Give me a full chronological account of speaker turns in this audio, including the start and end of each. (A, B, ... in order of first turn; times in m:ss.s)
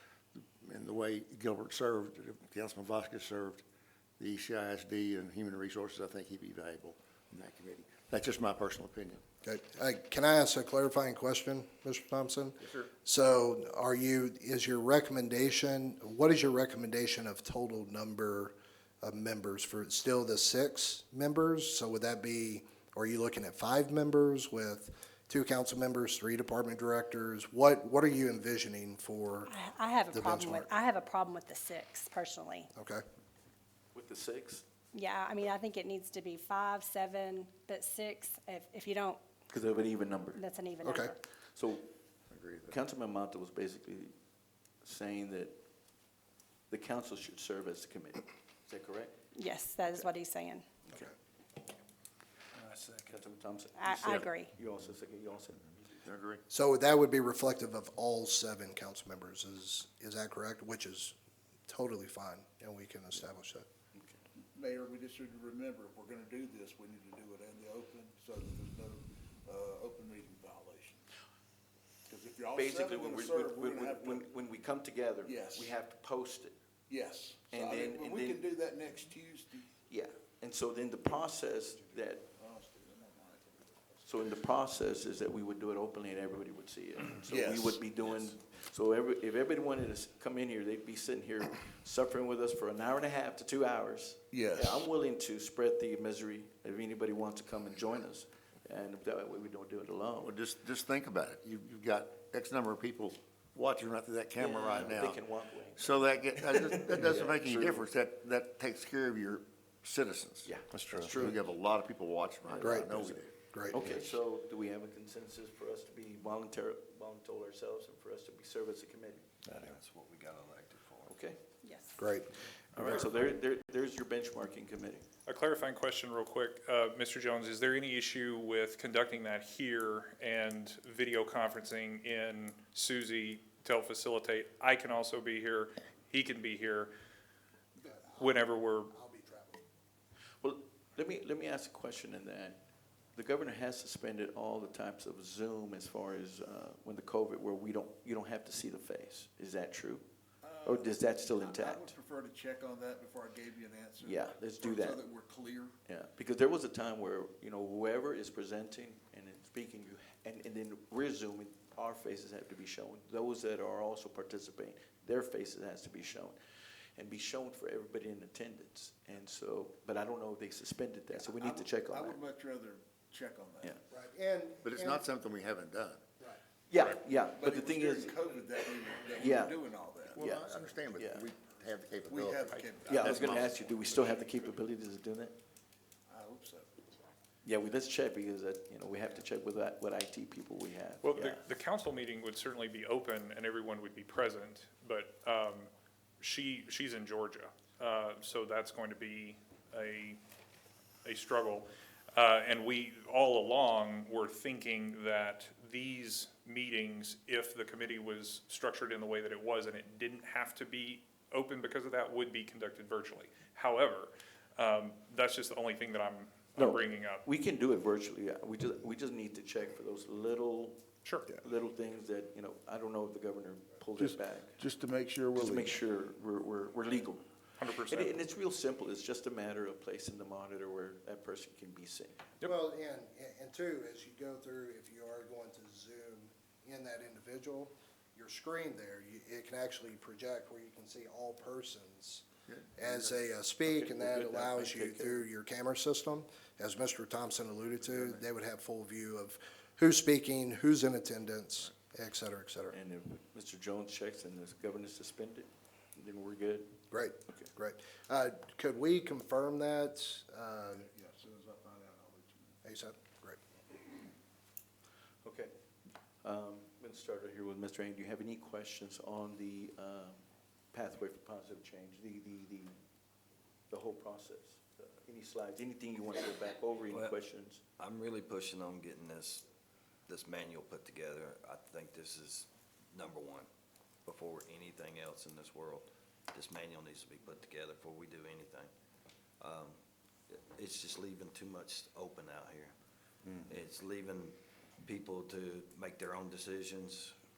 0:00.4-0:03.6 A
0:04.2-0:09.2 A
0:09.4-0:29.5 B
0:12.6-0:12.9 A
0:29.5-0:32.7 C
0:30.1-0:30.7 B
0:32.8-0:33.0 B
0:33.9-0:34.6 D
0:34.9-0:39.2 C
0:39.5-0:40.4 D
0:40.3-0:41.2 C
0:40.8-0:41.1 B
0:41.5-0:41.9 D
0:42.3-0:42.8 A
0:42.7-0:44.1 D
0:44.8-0:45.5 D
0:46.7-0:49.1 D
0:49.4-0:50.7 C
0:52.8-0:55.9 D
0:53.8-0:54.5 C
0:56.0-0:56.4 A
0:56.5-1:01.2 B
1:01.7-1:03.7 B
1:04.5-1:11.0 E
1:12.1-1:14.3 E
1:12.5-1:16.6 D
1:15.2-1:15.8 E
1:16.9-1:19.7 E
1:17.5-1:18.4 D
1:19.9-1:22.2 D
1:22.0-1:24.0 E
1:24.1-1:40.3 D
1:27.3-1:27.8 E
1:34.3-1:34.9 E
1:40.2-1:45.2 A
1:44.4-1:47.7 D
1:45.8-1:54.2 A
1:50.4-1:51.4 D
1:52.4-1:59.2 D
1:52.6-1:52.9 B
1:53.5-1:53.8 B
1:59.6-2:01.2 F
2:01.1-2:01.4 D
2:01.6-2:02.1 C
2:02.0-2:03.0 B
2:02.8-2:05.0 D
2:05.3-2:16.9 G
2:17.8-2:19.6 B
2:18.2-2:18.9 G
2:20.4-2:22.6 D
2:23.2-2:30.0 D
2:30.4-2:35.7 E
2:30.6-2:32.0 D
2:34.0-2:35.1 D
2:35.9-2:46.4 D
2:47.0-2:52.2 D
2:51.2-2:53.8 E
2:53.9-2:55.1 B
2:54.6-2:56.0 A
2:56.7-2:58.3 D
2:57.2-3:00.2 E
2:59.1-2:59.6 D
3:00.1-3:03.7 A
3:00.2-3:01.3 D
3:02.0-3:04.4 E
3:02.8-3:05.4 D
3:06.1-3:07.0 E
3:07.4-3:11.4 D
3:11.0-3:15.7 G
3:16.2-3:20.2 G
3:21.0-3:37.2 G
3:36.6-3:40.8 D
3:41.0-3:41.3 G
3:41.4-3:44.6 D
3:44.0-3:45.8 E
3:45.4-3:52.2 D
3:47.6-3:48.2 G
3:52.4-4:02.3 B
4:02.5-4:03.3 A
4:02.8-4:12.8 B
4:03.7-4:05.3 D
4:07.9-4:08.2 A
4:12.7-4:16.7 D
4:16.9-4:20.9 B
4:20.8-4:22.6 E
4:22.6-4:23.4 B
4:25.2-4:25.5 D
4:26.2-4:30.2 D
4:30.7-4:32.7 D
4:33.7-4:37.6 D
4:36.9-4:37.2 F
4:37.8-4:39.5 F
4:40.1-4:43.5 F
4:44.1-4:48.7 F
4:49.4-4:49.8 F
4:50.3-4:52.8 F
4:53.2-4:53.5 A
4:53.5-4:57.2 F